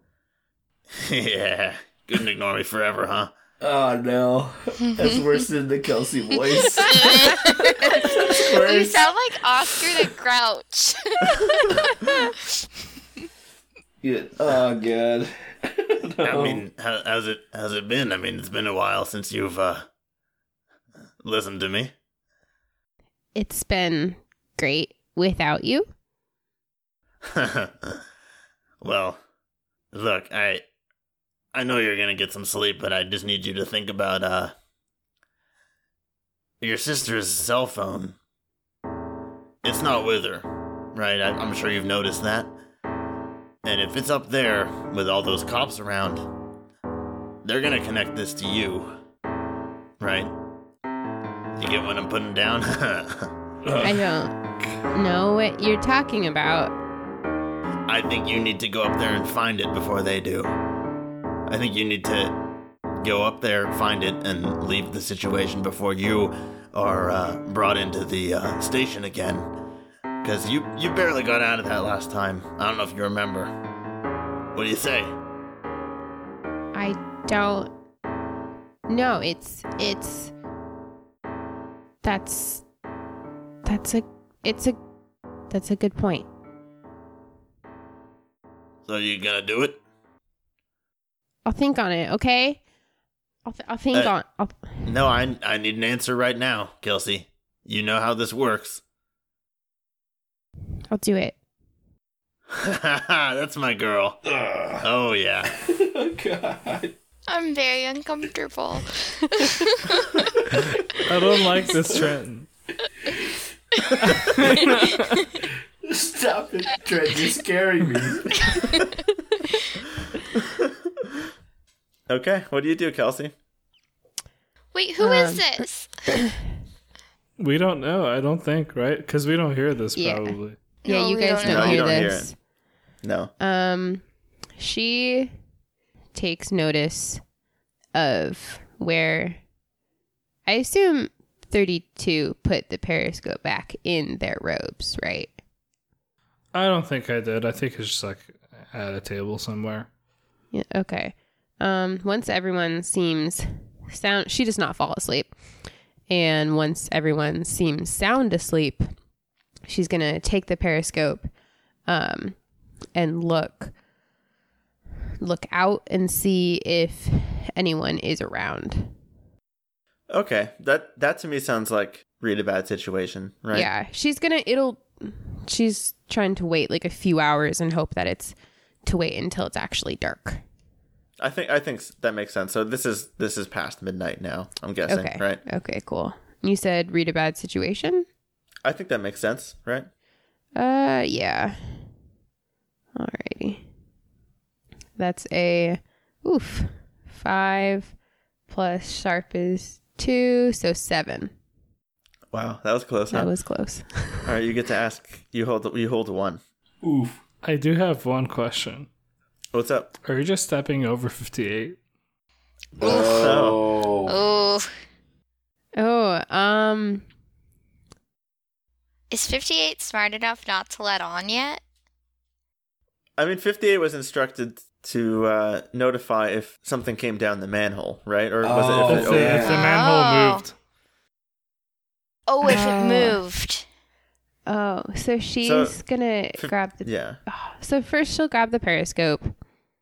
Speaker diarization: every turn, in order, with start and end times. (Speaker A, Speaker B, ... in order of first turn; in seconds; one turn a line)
Speaker A: 0.9-3.3
Speaker B: 3.6-9.1
Speaker C: 6.9-12.2
Speaker B: 14.0-16.6
Speaker A: 16.2-19.9
Speaker A: 21.2-21.9
Speaker D: 23.4-25.9
Speaker A: 27.2-28.0
Speaker A: 28.8-29.2
Speaker A: 29.9-30.6
Speaker A: 31.5-34.5
Speaker A: 36.6-38.2
Speaker A: 39.6-42.5
Speaker A: 43.6-46.3
Speaker A: 47.4-49.0
Speaker A: 50.0-50.3
Speaker A: 51.5-53.9
Speaker D: 53.8-54.4
Speaker D: 54.9-56.7
Speaker A: 57.9-60.5
Speaker A: 61.5-62.4
Speaker A: 63.0-69.5
Speaker A: 70.2-73.5
Speaker A: 74.5-75.1
Speaker D: 76.7-77.7
Speaker D: 78.9-80.3
Speaker D: 82.0-82.6
Speaker D: 83.7-84.8
Speaker D: 85.5-86.3
Speaker A: 88.9-89.8
Speaker D: 91.5-92.6
Speaker D: 93.5-94.8
Speaker A: 94.8-98.8
Speaker D: 100.9-101.4
Speaker A: 102.5-104.2
Speaker B: 104.3-104.8
Speaker A: 104.8-105.6
Speaker B: 105.6-107.0
Speaker C: 107.3-110.2
Speaker E: 111.0-112.5
Speaker B: 111.7-112.1
Speaker E: 114.0-115.3
Speaker B: 115.8-118.7
Speaker A: 120.4-120.7
Speaker A: 122.1-123.3
Speaker C: 124.7-125.9
Speaker D: 125.0-125.7
Speaker E: 127.4-130.6
Speaker D: 130.0-132.3
Speaker C: 130.8-132.1
Speaker A: 131.4-132.3
Speaker A: 133.0-133.3
Speaker D: 133.4-134.0
Speaker D: 134.6-135.3
Speaker D: 136.1-137.2
Speaker D: 137.9-139.4
Speaker D: 140.5-145.3
Speaker E: 146.5-149.9
Speaker D: 150.5-155.3
Speaker D: 156.1-158.9
Speaker D: 159.7-161.3
Speaker D: 161.9-162.4
Speaker D: 162.9-163.7
Speaker D: 165.2-168.9
Speaker A: 170.1-173.7
Speaker D: 173.5-180.4
Speaker A: 181.2-185.4
Speaker D: 184.9-188.1
Speaker A: 188.6-189.9
Speaker D: 190.6-191.8
Speaker D: 192.9-193.7
Speaker D: 195.0-197.9
Speaker D: 198.5-201.3
Speaker A: 202.3-203.3
Speaker D: 203.1-204.3
Speaker A: 204.2-206.4
Speaker B: 206.8-207.2
Speaker E: 207.4-208.9
Speaker A: 209.5-209.9
Speaker E: 210.1-211.8
Speaker B: 212.8-214.2
Speaker A: 212.8-213.8
Speaker C: 214.1-214.7
Speaker D: 215.8-217.1
Speaker C: 219.1-221.6
Speaker A: 223.2-229.5
Speaker B: 228.4-229.7
Speaker E: 228.9-230.5
Speaker C: 229.4-230.5
Speaker C: 232.3-233.7
Speaker D: 232.4-233.2
Speaker D: 234.5-239.3
Speaker A: 235.4-235.8
Speaker A: 236.4-237.2